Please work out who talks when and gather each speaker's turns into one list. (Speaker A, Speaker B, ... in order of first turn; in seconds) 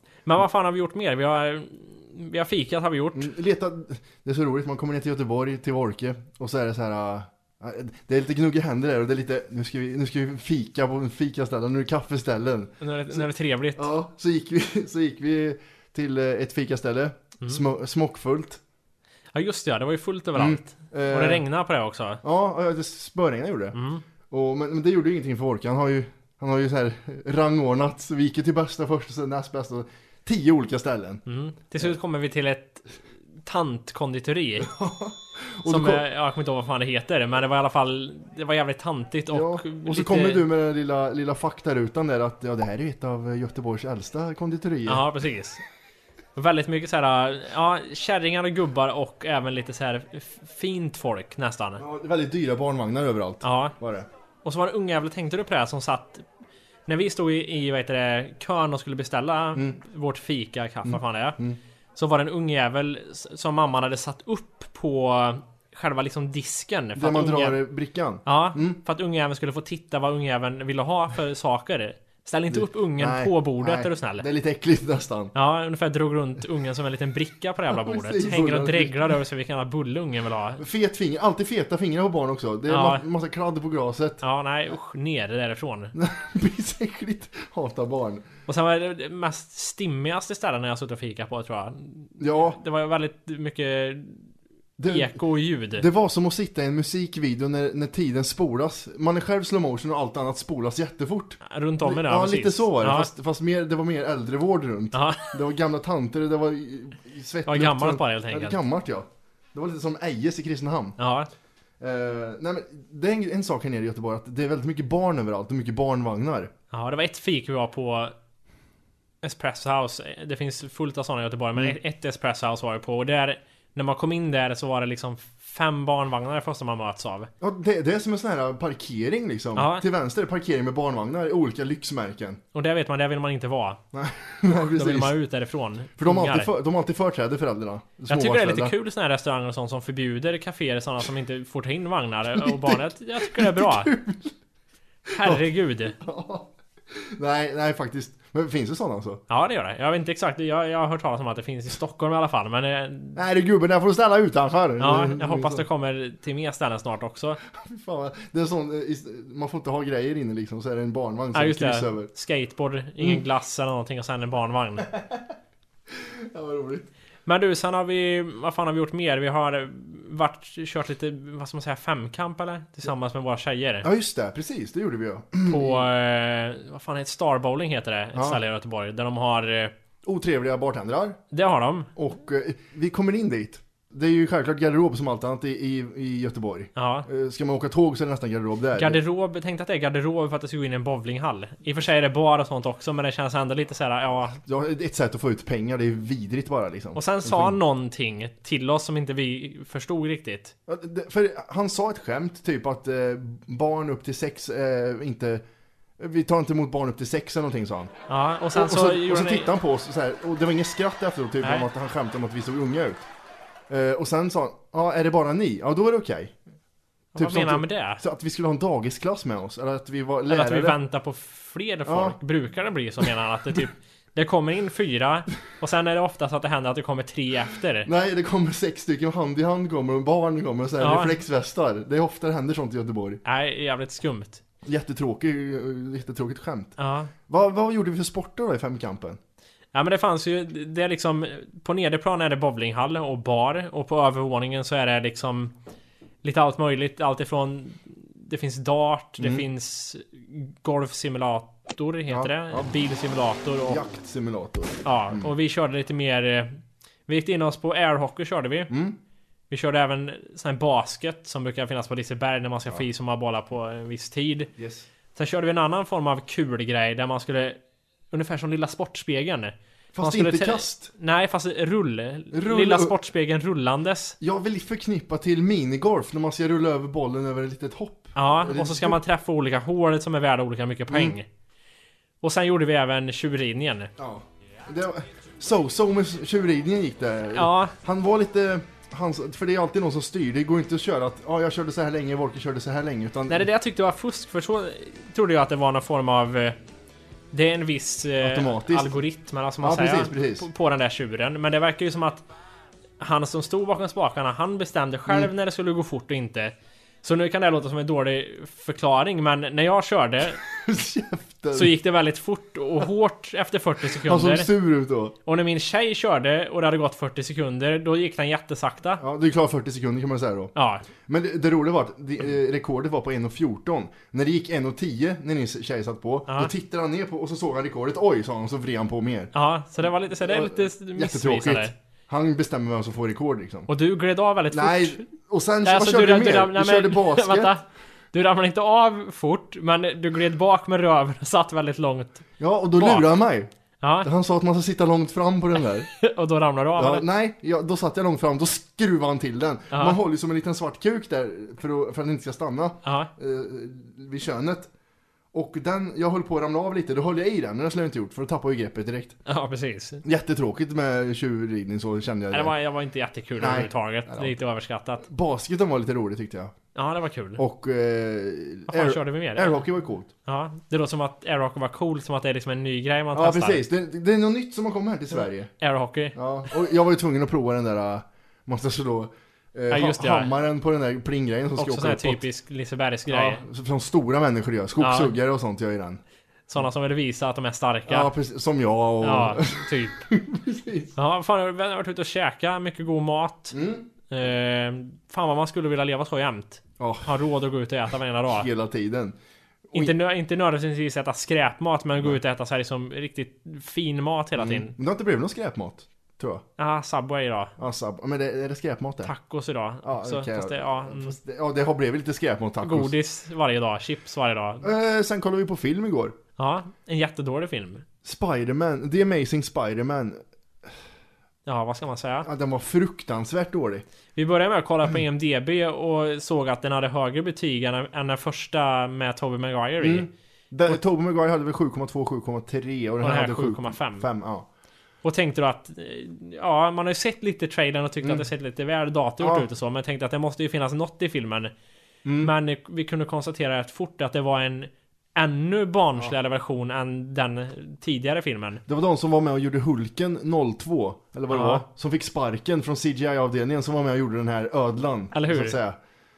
Speaker A: 0.3-3.3, 12.8-13.9, 19.3-22.2, 23.7-24.0, 31.3-34.7, 35.7-40.5, 44.9-45.6, 46.4-51.8, 53.4-53.8, 54.4-56.2, 56.9-61.4, 62.0-67.6, 68.3-74.3, 75.3-80.6, 82.7-83.0, 84.2-85.9, 88.5-94.3, 94.9-95.9, 101.4-103.1, 104.9-105.4, 107.5-108.6, 111.0-111.3, 116.7-118.1, 119.2-127.3, 129.6-129.9, 132.5-133.8, 134.5-136.5, 138.1-143.9, 145.1-146.0, 149.3-153.2, 154.8-157.4, 161.3-164.9, 167.3-173.9, 175.5-179.7, 181.3-181.9, 186.8-187.1, 188.8-194.4, 196.9-200.5, 208.1-209.5, 217.2-218.0, 220.3-227.9, 230.8-231.2, 233.2-234.4, 236.8-237.1, 239.7-245.5, 246.2-253.8, 254.8-258.7, 259.5-264.5, 265.1-267.6, 268.1-274.2, 278.2-281.3, 282.2-283.9, 287.4-287.8, 293.3-296.6, 297.3-302.3, 303.0-310.4, 311.5-314.5, 315.3-319.0, 320.6-320.9, 326.3-326.5, 329.3-331.7, 333.7-335.1, 335.6-342.2, 342.8-343.1, 343.8-344.1, 346.0-347.1, 349.7-350.0, 352.9-353.1, 359.3-360.0, 362.3-365.0, 366.8-367.4, 368.7-369.6, 370.3-373.6, 375.6-376.2, 379.7-380.3, 381.6-383.4, 384.8-385.1, 386.5-388.1, 389.0-390.1, 391.0-393.6, 394.1-398.5, 399.7-404.8, 406.6-407.5, 409.0-411.2, 412.6-414.7, 416.4-417.8, 421.5-422.3, 424.1-430.1, 433.0-434.1, 435.0-441.5, 442.2-448.6, 451.3-451.6, 455.1-455.6
Speaker B: 3.1-18.6, 20.4-21.4, 22.2-23.8, 24.3-31.2, 34.6-36.1, 39.3-45.1, 51.8-54.1, 60.9-61.6, 67.0-68.8, 72.5-75.3, 77.7-79.1, 80.6-84.2, 85.9-88.3, 92.2-92.6, 94.8-95.2, 95.7-111.0, 111.8-116.5, 127.4-132.4, 133.9-135.2, 136.0-138.7, 142.4-144.3, 145.1-149.2, 153.2-155.7, 157.5-162.1, 164.9-165.2, 166.0-166.9, 173.8-175.9, 178.1-178.4, 180.0-181.2, 182.0-189.0, 194.3-197.6, 200.7-205.4, 206.0-207.9, 208.5-213.1, 213.7-216.4, 217.2-220.8, 221.9-222.2, 227.8-233.2, 234.7-236.8, 237.3-239.2, 249.2-249.4, 252.1-252.7, 253.7-255.3, 258.7-259.0, 264.6-264.9, 269.9-270.9, 272.3-273.0, 274.2-279.0, 280.9-281.1, 284.0-293.5, 298.2-299.0, 299.6-300.5, 310.4-311.7, 313.9-315.2, 319.0-333.7, 334.5-337.5, 342.4-343.5, 344.0-345.9, 346.8-354.7, 355.3-359.2, 360.0-362.6, 363.4-364.3, 365.0-366.5, 367.4-370.1, 373.1-375.5, 376.1-382.2, 383.1-386.0, 387.9-390.9, 393.5-393.9, 396.8-397.1, 398.3-399.2, 404.4-406.4, 407.6-409.1, 409.8-412.9, 414.6-416.2, 418.0-420.7, 422.2-423.9, 429.8-434.5, 438.0-438.3, 439.2-439.5, 442.1-442.3, 448.7-455.8